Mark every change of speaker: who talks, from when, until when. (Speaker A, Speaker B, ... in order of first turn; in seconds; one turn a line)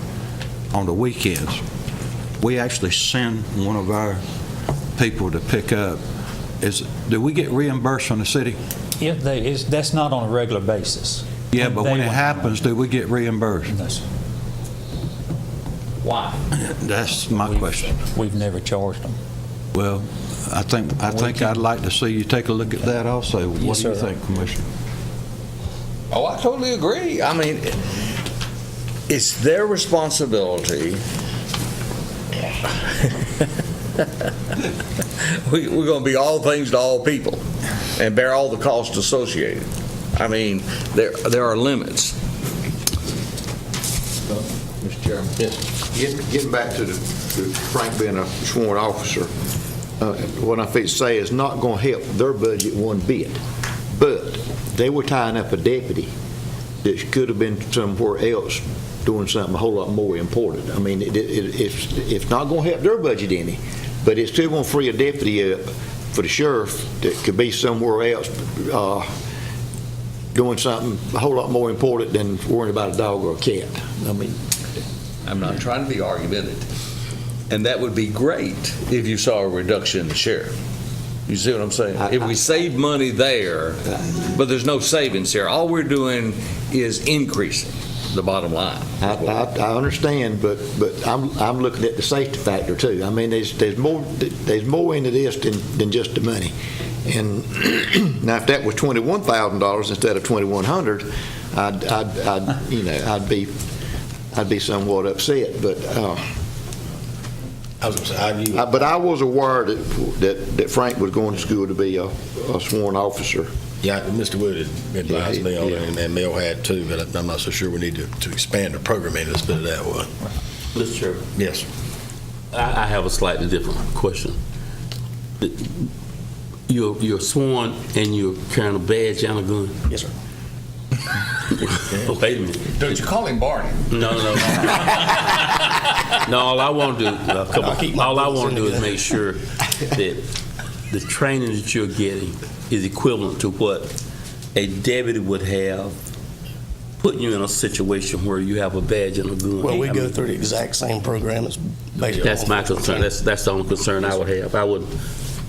Speaker A: 0.7-1.6
Speaker A: 2.4-4.2
Speaker A: 5.0-6.0
Speaker A: 6.6-8.6
Speaker B: 9.0-12.6
Speaker A: 11.5-13.7
Speaker B: 13.7-14.0
Speaker C: 16.0-16.4
Speaker A: 16.5-17.9
Speaker B: 17.4-19.1
Speaker A: 19.7-24.7
Speaker B: 21.1-21.6
Speaker B: 23.6-24.1
Speaker C: 26.1-27.8
Speaker C: 29.1-31.0
Speaker C: 32.7-33.1
Speaker C: 35.2-37.4
Speaker C: 38.0-42.2
Speaker D: 44.3-45.3
Speaker D: 45.8-49.3
Speaker D: 50.0-53.4
Speaker D: 53.9-56.1
Speaker D: 56.8-69.1
Speaker D: 70.3-74.4
Speaker C: 75.2-76.7
Speaker C: 77.5-80.5
Speaker C: 81.3-89.4
Speaker D: 82.0-82.2
Speaker D: 89.0-96.5
Speaker D: 97.0-103.5
Speaker D: 104.3-106.2
Speaker E: 107.8-108.9
Speaker D: 108.5-113.5
Speaker E: 113.8-120.1
Speaker D: 115.1-115.4
Speaker F: 120.8-121.2
Speaker E: 121.3-121.6
Speaker F: 122.5-124.4
Speaker F: 126.7-129.8
Speaker F: 131.9-132.9
Speaker C: 132.8-135.2
Speaker F: 133.9-135.2
Speaker F: 136.1-140.3
Speaker G: 137.5-139.1
Speaker F: 140.9-143.9
Speaker F: 144.5-145.9
Speaker F: 147.0-150.3
Speaker G: 149.6-153.1
Speaker F: 152.0-154.9